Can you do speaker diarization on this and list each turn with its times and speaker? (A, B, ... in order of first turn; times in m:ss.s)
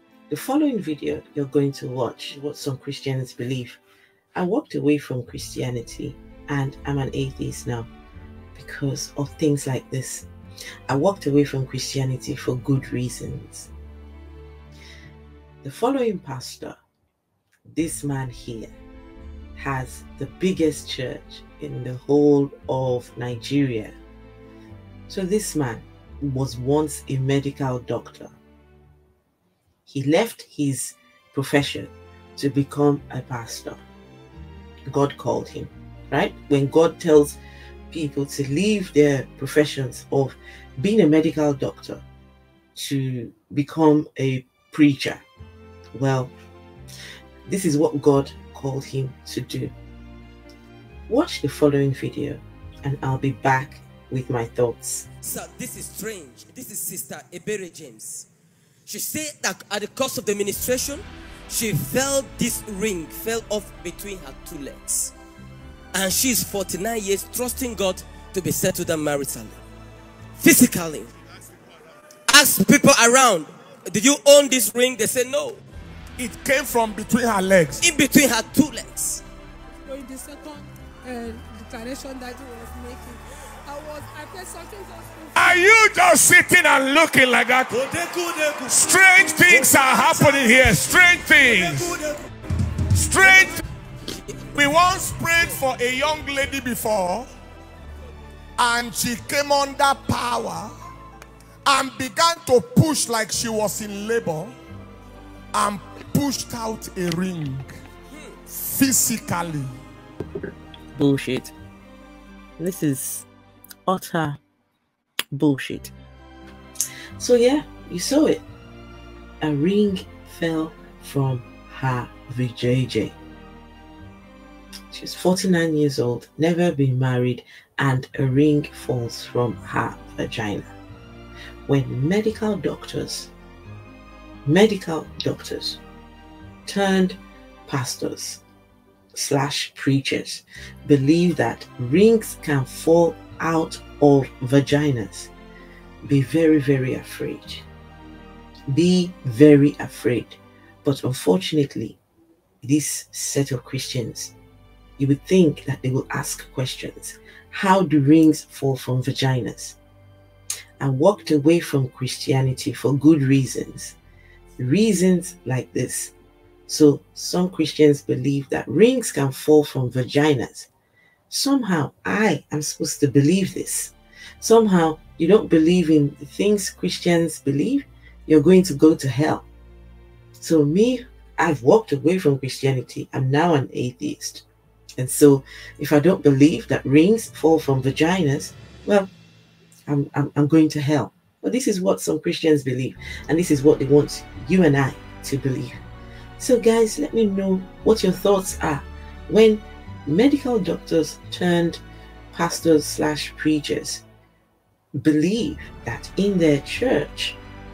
0:00.3-0:03.8 A
0:04.3-0:07.9 A
0:08.5-0:10.3 A
0:10.9-0:13.7 A
0:15.6-0:16.8 A
0:17.7-0:18.7 A
0:19.6-0:23.9 A
0:25.1-0:28.3 A
0:29.8-0:33.8 A
0:34.9-0:37.4 A
0:37.9-0:42.0 A
0:42.7-0:45.2 A
0:45.9-0:46.3 A
0:47.4-0:49.7 A
0:51.1-0:55.0 A
0:55.2-0:58.3 B
0:58.9-1:05.1 B
1:05.9-1:09.6 B
1:10.4-1:11.1 B
1:12.3-1:15.6 B
1:16.2-1:17.8 C
1:17.8-1:19.2 B
1:19.8-1:25.6 D
1:25.4-1:27.8 C
1:27.7-1:30.8 B
1:28.7-1:32.0 C
1:31.4-1:32.2 B
1:32.9-1:33.6 C
1:34.5-1:37.3 C
1:38.6-1:40.7 C
1:41.6-1:44.5 C
1:45.5-1:47.7 C
1:48.5-1:49.7 C
1:50.9-1:51.5 A
1:52.6-1:53.3 A
1:53.9-1:54.4 A
1:55.3-1:55.9 A
1:57.2-1:58.4 A
1:59.4-2:03.2 A
2:04.9-2:10.7 A
2:11.7-2:13.3 A
2:14.4-2:15.8 A
2:16.6-2:18.4 A
2:19.1-2:25.3 A
2:26.0-2:27.6 A
2:28.7-2:32.0 A
2:32.6-2:34.3 A
2:35.0-2:39.8 A
2:40.8-2:44.0 A
2:44.6-2:46.1 A
2:46.7-2:50.7 A
2:51.3-2:59.4 A
3:00.4-3:04.4 A
3:05.0-3:09.1 A
3:09.9-3:15.8 A
3:16.4-3:21.8 A
3:22.3-3:24.0 A
3:25.0-3:27.4 A